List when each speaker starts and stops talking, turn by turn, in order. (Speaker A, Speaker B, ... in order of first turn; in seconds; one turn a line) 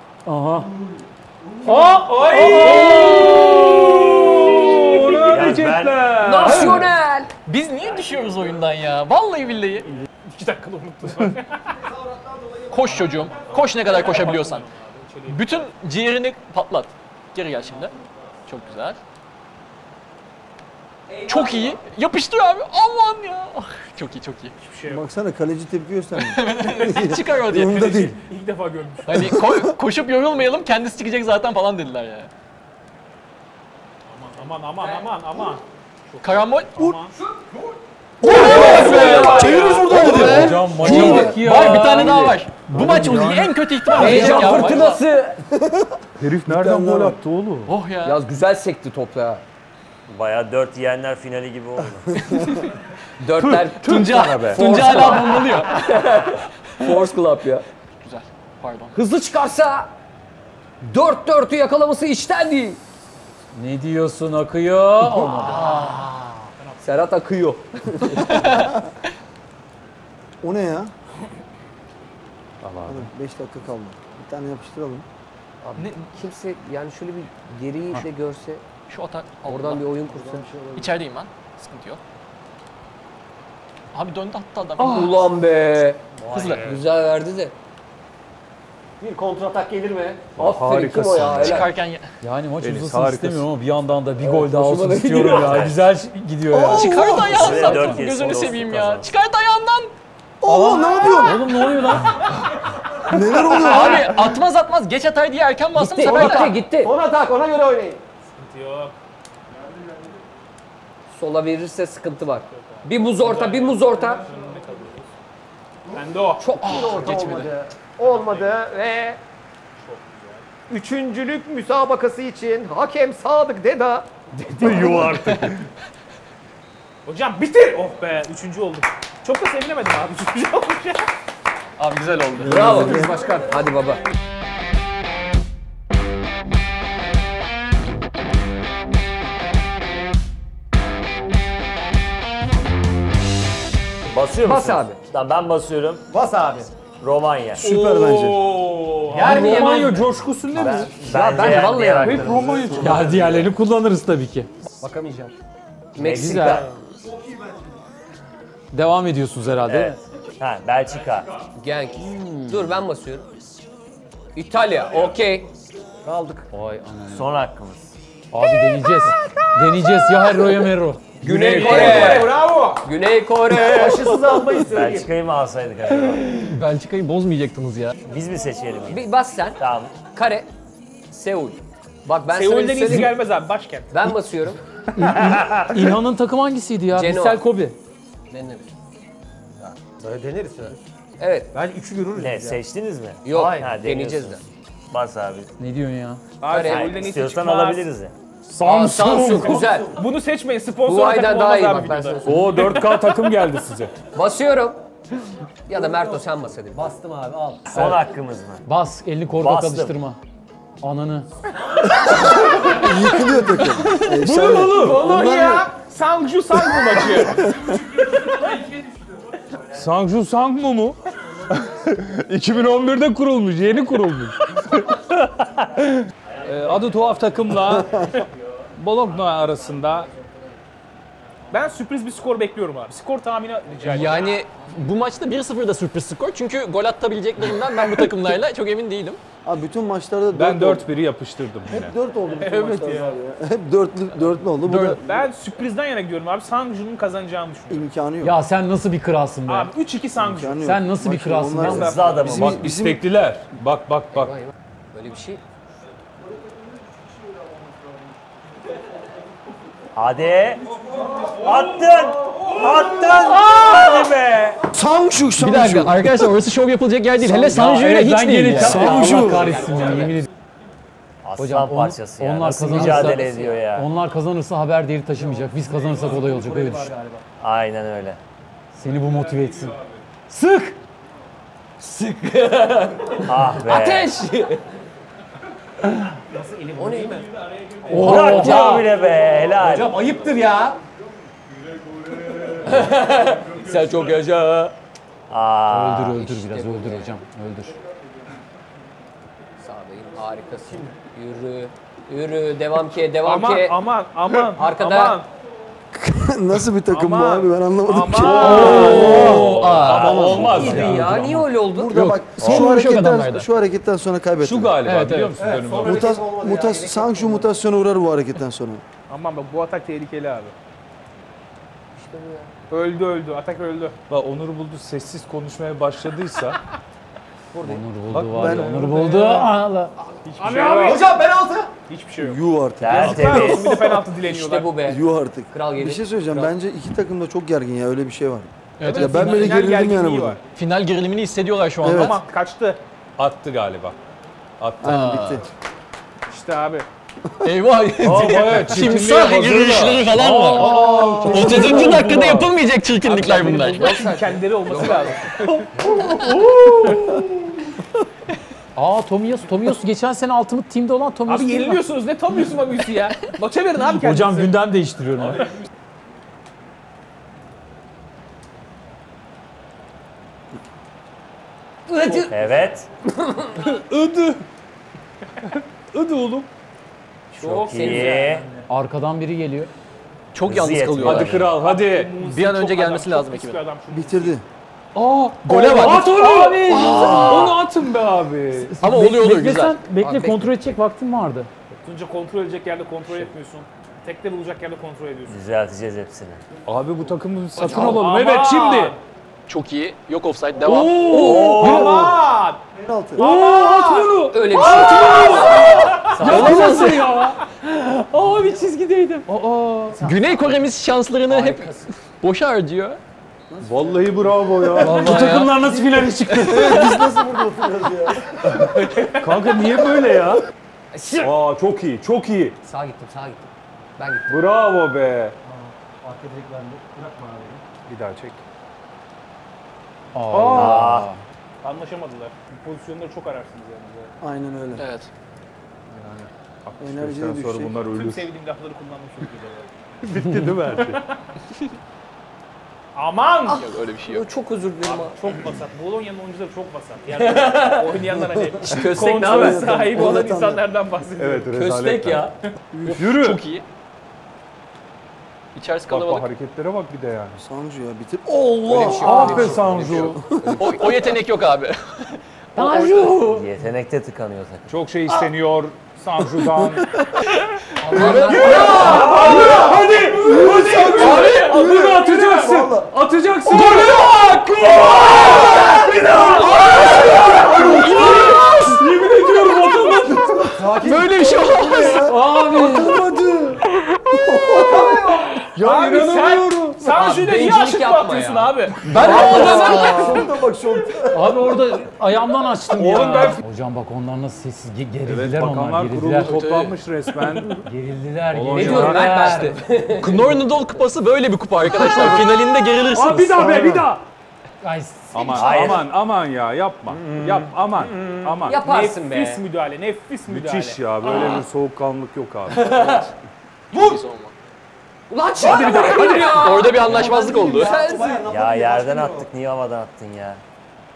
Speaker A: 0.2-0.7
Speaker B: 0.9-2.8
Speaker A: 1.6-3.3
Speaker C: 1.7-5.7
Speaker D: 2.1-6.9
Speaker E: 2.7-3.0
Speaker F: 5.3-6.5
Speaker E: 6.2-7.3
Speaker G: 7.5-10.0
Speaker C: 10.3-11.7
Speaker B: 11.7-14.0
Speaker G: 12.7-14.7
Speaker C: 13.3-15.7
Speaker G: 15.3-17.9
Speaker G: 18.4-19.0
Speaker G: 21.3-24.5
Speaker C: 24.6-25.1
Speaker H: 24.9-28.2
Speaker G: 26.1-28.2
Speaker C: 28.2-29.3
Speaker G: 29.1-32.3
Speaker H: 29.2-29.7
Speaker C: 34.2-37.1
Speaker G: 36.2-36.7
Speaker E: 38.2-40.5
Speaker G: 38.2-45.0
Speaker C: 38.3-40.1
Speaker H: 38.3-38.5
Speaker D: 38.8-41.4
Speaker H: 39.8-46.0
Speaker A: 39.8-42.4
Speaker D: 42.7-43.3
Speaker E: 43.9-45.2
Speaker D: 44.0-44.8
Speaker A: 44.1-44.5
Speaker B: 44.4-45.0
Speaker D: 46.2-47.7
Speaker H: 46.5-47.1
Speaker G: 47.7-48.2
Speaker E: 48.0-49.4
Speaker F: 50.1-52.3
Speaker H: 52.3-52.5
Speaker G: 52.4-52.7
Speaker E: 53.2-57.6
Speaker D: 53.3-54.7
Speaker G: 53.8-55.9
Speaker G: 58.0-59.0
Speaker E: 58.9-59.9
Speaker E: 60.8-62.8
Speaker A: 63.5-65.7
Speaker E: 65.2-66.2
Speaker G: 65.5-65.9
Speaker C: 66.6-66.9
Speaker E: 66.8-68.7
Speaker G: 68.2-68.7
Speaker H: 70.4-70.9
Speaker D: 72.6-73.1
Speaker H: 72.8-75.0
Speaker E: 75.6-78.6
Speaker G: 78.9-79.8
Speaker E: 79.4-80.5
Speaker B: 80.0-80.9
Speaker G: 80.7-82.0
Speaker G: 83.9-85.3
Speaker E: 84.8-87.5
Speaker G: 86.3-86.7
Speaker B: 89.0-90.2
Speaker D: 90.3-91.7
Speaker E: 90.4-91.7
Speaker G: 91.3-92.1
Speaker A: 92.2-97.2
Speaker D: 92.6-93.5
Speaker E: 94.2-95.7
Speaker D: 94.4-95.8
Speaker F: 95.3-95.8
Speaker H: 96.5-97.9
Speaker G: 96.7-99.9
Speaker F: 97.2-99.1
Speaker H: 100.4-101.7
Speaker A: 101.0-102.3
Speaker H: 103.0-104.4
Speaker G: 103.3-106.6
Speaker E: 105.7-106.9
Speaker H: 106.0-106.4
Speaker B: 106.1-108.0
Speaker C: 108.3-109.0
Speaker E: 111.1-114.2
Speaker C: 112.5-115.1
Speaker C: 115.9-116.5
Speaker E: 116.4-117.4
Speaker B: 116.6-119.2
Speaker G: 116.6-117.5
Speaker C: 118.0-118.6
Speaker C: 119.8-120.5
Speaker B: 120.7-124.1
Speaker D: 124.6-125.7
Speaker G: 125.0-125.6
Speaker C: 127.0-131.1
Speaker G: 131.8-132.8
Speaker H: 132.4-133.2
Speaker E: 132.4-134.0
Speaker B: 132.9-133.6
Speaker F: 144.1-146.0
Speaker E: 144.4-145.0
Speaker B: 146.1-146.7
Speaker F: 147.0-147.7
Speaker H: 147.6-148.5
Speaker C: 147.6-149.6
Speaker B: 149.1-150.1
Speaker D: 149.2-153.4
Speaker E: 149.2-150.1
Speaker F: 150.5-153.4
Speaker E: 150.6-152.5
Speaker B: 152.1-152.4
Speaker A: 152.7-154.5
Speaker B: 154.8-155.3
Speaker F: 155.9-156.7
Speaker E: 155.9-156.7
Speaker A: 156.1-156.6
Speaker B: 157.0-157.6
Speaker A: 158.7-160.0
Speaker F: 159.6-161.3
Speaker E: 161.6-163.2
Speaker A: 162.2-162.5
Speaker E: 164.3-165.5
Speaker B: 166.0-166.5
Speaker A: 166.5-167.3
Speaker F: 167.1-167.9
Speaker A: 168.3-171.2
Speaker D: 171.2-172.3
Speaker E: 171.2-174.4
Speaker B: 171.5-172.8
Speaker C: 171.6-172.7
Speaker B: 173.5-175.1
Speaker F: 174.7-176.4
Speaker G: 175.9-177.9
Speaker F: 178.1-180.0
Speaker E: 178.9-180.5
Speaker E: 181.1-183.2
Speaker C: 182.3-184.1
Speaker E: 183.9-184.6
Speaker A: 184.9-187.8
Speaker D: 185.2-186.0
Speaker E: 186.9-187.5
Speaker E: 188.3-188.7
Speaker B: 189.6-190.8
Speaker E: 191.2-191.5
Speaker B: 191.5-192.6
Speaker F: 192.2-194.4
Speaker E: 193.2-194.4
Speaker B: 193.3-193.7
Speaker F: 194.9-195.5
Speaker A: 195.6-196.2
Speaker C: 196.4-197.9
Speaker E: 196.4-197.1
Speaker F: 196.6-198.1
Speaker D: 198.5-199.8
Speaker E: 198.6-200.0
Speaker B: 199.6-199.8
Speaker C: 199.9-202.4
Speaker E: 200.8-202.8
Speaker D: 202.2-203.9
Speaker E: 204.1-204.8
Speaker E: 205.7-206.9
Speaker B: 206.7-207.9
Speaker F: 207.7-208.7
Speaker A: 208.7-210.2
Speaker F: 209.3-209.9
Speaker A: 210.8-211.3
Speaker H: 212.1-215.7
Speaker C: 214.0-217.6
Speaker D: 214.1-215.0
Speaker B: 214.9-215.4
Speaker H: 216.8-217.8
Speaker D: 219.7-221.0
Speaker D: 221.5-228.0
Speaker F: 226.3-226.7
Speaker H: 227.7-228.1
Speaker D: 228.8-230.1
Speaker C: 231.5-234.4
Speaker G: 233.8-239.2
Speaker H: 239.4-240.9
Speaker D: 240.3-241.9
Speaker H: 241.7-245.0
Speaker C: 242.3-243.2
Speaker G: 244.6-245.0
Speaker C: 245.0-247.9
Speaker H: 247.7-248.4
Speaker A: 248.2-249.7
Speaker C: 249.5-250.7
Speaker H: 250.2-253.0
Speaker A: 250.6-252.1
Speaker C: 251.6-252.2
Speaker F: 251.6-252.7
Speaker D: 252.2-254.4
Speaker E: 254.1-255.4
Speaker F: 259.9-260.6
Speaker B: 260.7-263.0
Speaker F: 261.3-264.6
Speaker G: 263.6-263.9
Speaker H: 264.7-266.3
Speaker G: 265.3-269.0
Speaker A: 267.2-270.3
Speaker D: 268.5-269.9
Speaker H: 268.6-269.6
Speaker B: 269.1-270.2
Speaker F: 271.2-273.9
Speaker A: 271.4-276.9
Speaker E: 272.7-273.6
Speaker B: 275.1-277.2
Speaker F: 277.4-278.2
Speaker A: 278.7-280.8
Speaker D: 278.9-279.6
Speaker E: 281.8-284.6
Speaker F: 283.2-284.1
Speaker B: 286.3-287.3
Speaker E: 286.8-287.2
Speaker C: 287.4-288.0
Speaker A: 287.9-288.9
Speaker F: 287.9-289.9
Speaker A: 289.6-290.2
Speaker B: 289.6-290.8
Speaker E: 292.6-294.7
Speaker F: 295.3-296.2
Speaker A: 295.7-297.8
Speaker E: 296.1-297.2
Speaker E: 299.6-305.2
Speaker B: 300.6-300.9
Speaker C: 303.2-305.3
Speaker H: 305.9-309.4
Speaker C: 306.9-308.8
Speaker D: 307.9-311.4
Speaker A: 308.4-312.2
Speaker E: 308.4-312.0
Speaker G: 309.3-310.1
Speaker H: 310.1-310.8
Speaker H: 311.7-314.9
Speaker G: 311.9-313.4
Speaker D: 312.4-312.8
Speaker A: 312.8-313.3
Speaker D: 314.4-316.1
Speaker G: 314.8-315.4
Speaker B: 315.4-317.5
Speaker H: 315.8-318.8
Speaker C: 319.1-320.5
Speaker E: 321.9-322.5
Speaker C: 322.7-324.0
Speaker D: 324.1-326.6
Speaker A: 327.6-329.9
Speaker D: 328.1-329.5
Speaker H: 328.3-328.9
Speaker C: 330.2-331.1
Speaker B: 330.4-331.7
Speaker G: 330.5-331.0
Speaker C: 331.9-334.8
Speaker H: 332.2-334.0
Speaker F: 332.8-333.8
Speaker E: 333.5-336.5
Speaker H: 334.8-340.4
Speaker G: 338.8-339.6
Speaker C: 338.8-340.4
Speaker G: 340.5-342.2
Speaker H: 341.8-342.2
Speaker C: 341.9-342.8
Speaker D: 343.2-344.0
Speaker D: 344.6-345.0
Speaker H: 344.8-345.4
Speaker G: 344.8-345.4
Speaker C: 346.3-346.9
Speaker G: 347.4-354.1
Speaker D: 348.0-352.6
Speaker A: 348.7-349.0
Speaker A: 350.1-351.1
Speaker E: 350.8-351.6
Speaker E: 353.0-355.3
Speaker C: 353.1-355.7
Speaker D: 355.8-357.3
Speaker A: 358.8-361.8
Speaker C: 361.2-364.7
Speaker A: 363.8-365.5
Speaker E: 372.0-372.3
Speaker F: 372.1-372.9
Speaker E: 373.1-373.8
Speaker C: 374.1-374.3
Speaker D: 375.9-376.4
Speaker C: 376.0-376.3
Speaker C: 377.3-378.6
Speaker F: 377.4-378.4
Speaker E: 377.6-378.3
Speaker A: 378.7-379.7
Speaker G: 380.3-381.5
Speaker F: 380.4-381.6
Speaker D: 380.9-382.2
Speaker C: 381.4-384.4
Speaker G: 382.2-383.6
Speaker H: 383.9-384.4
Speaker D: 384.9-388.8
Speaker A: 385.4-387.6
Speaker G: 385.4-386.1
Speaker F: 386.9-387.6
Speaker G: 387.0-387.3
Speaker A: 388.6-391.5
Speaker G: 388.8-389.8
Speaker E: 390.0-390.7
Speaker C: 391.8-395.4
Speaker F: 395.3-396.4
Speaker D: 396.6-399.0
Speaker C: 397.5-399.0
Speaker E: 397.6-398.0
Speaker G: 399.5-401.5
Speaker D: 400.6-402.1
Speaker E: 401.1-401.4
Speaker F: 401.1-402.1
Speaker C: 401.2-402.6
Speaker H: 401.6-402.1
Speaker H: 402.8-403.2
Speaker C: 403.2-406.0
Speaker D: 403.2-407.4
Speaker E: 404.1-406.2
Speaker A: 406.1-406.9
Speaker G: 406.2-409.3
Speaker B: 408.1-408.7
Speaker D: 409.3-410.1
Speaker B: 410.0-410.6
Speaker G: 410.0-413.0
Speaker E: 411.3-411.7
Speaker H: 413.5-415.0
Speaker D: 413.6-417.0
Speaker A: 414.8-415.8
Speaker G: 415.1-415.5
Speaker H: 416.4-418.7
Speaker G: 416.5-417.0
Speaker D: 418.4-420.4
Speaker E: 420.9-421.3
Speaker D: 421.2-422.6
Speaker E: 422.6-424.4
Speaker D: 424.3-425.4
Speaker B: 425.4-427.6
Speaker D: 427.9-428.4
Speaker A: 430.1-431.2
Speaker D: 430.3-430.9
Speaker F: 430.5-431.1
Speaker C: 431.6-434.1
Speaker H: 434.2-434.8
Speaker G: 434.8-435.1
Speaker D: 435.9-438.3
Speaker H: 436.8-437.7
Speaker C: 437.9-439.7
Speaker D: 440.0-441.0
Speaker C: 442.9-443.6
Speaker E: 443.5-445.4
Speaker G: 443.5-444.3
Speaker C: 444.8-451.5
Speaker E: 447.2-450.2
Speaker H: 448.7-450.6
Speaker D: 451.2-453.4
Speaker E: 451.5-452.3
Speaker G: 452.8-453.6
Speaker G: 455.5-456.3
Speaker D: 455.9-457.4
Speaker H: 457.4-460.8
Speaker E: 458.6-461.1
Speaker D: 458.8-460.4
Speaker G: 459.8-463.2
Speaker A: 462.6-463.5
Speaker F: 463.2-464.7
Speaker D: 464.7-466.9
Speaker E: 467.8-469.6
Speaker D: 467.9-480.6
Speaker G: 468.5-471.6
Speaker A: 468.9-469.8
Speaker H: 469.1-472.9
Speaker A: 470.7-474.0
Speaker G: 473.5-474.2
Speaker F: 474.6-476.3
Speaker G: 476.1-478.9
Speaker H: 477.4-478.0
Speaker A: 477.4-478.0
Speaker A: 479.9-480.1
Speaker H: 480.5-485.0
Speaker G: 480.7-482.1
Speaker B: 480.8-481.1
Speaker A: 481.8-483.1
Speaker G: 483.9-484.4
Speaker E: 484.5-485.1
Speaker B: 484.6-485.3
Speaker D: 485.5-486.8
Speaker C: 485.5-489.5
Speaker E: 486.8-490.2
Speaker D: 488.8-489.7
Speaker G: 488.8-490.3
Speaker H: 488.9-491.5
Speaker A: 491.1-496.4
Speaker D: 492.7-493.4
Speaker D: 495.0-497.7
Speaker G: 496.2-496.8
Speaker A: 497.6-499.6
Speaker D: 498.3-499.4
Speaker E: 498.5-500.4
Speaker G: 498.8-503.5
Speaker D: 501.8-504.0
Speaker A: 504.6-505.8
Speaker D: 505.1-508.6
Speaker F: 505.3-505.8
Speaker F: 506.9-508.4
Speaker E: 508.4-509.4
Speaker C: 508.5-510.8
Speaker D: 510.3-512.7
Speaker G: 511.0-511.4
Speaker G: 512.5-513.1
Speaker E: 512.5-513.0
Speaker G: 513.7-514.3
Speaker E: 515.1-518.2
Speaker D: 515.4-516.5
Speaker C: 515.5-516.1
Speaker G: 516.0-517.8
Speaker B: 516.7-519.3
Speaker F: 518.2-520.4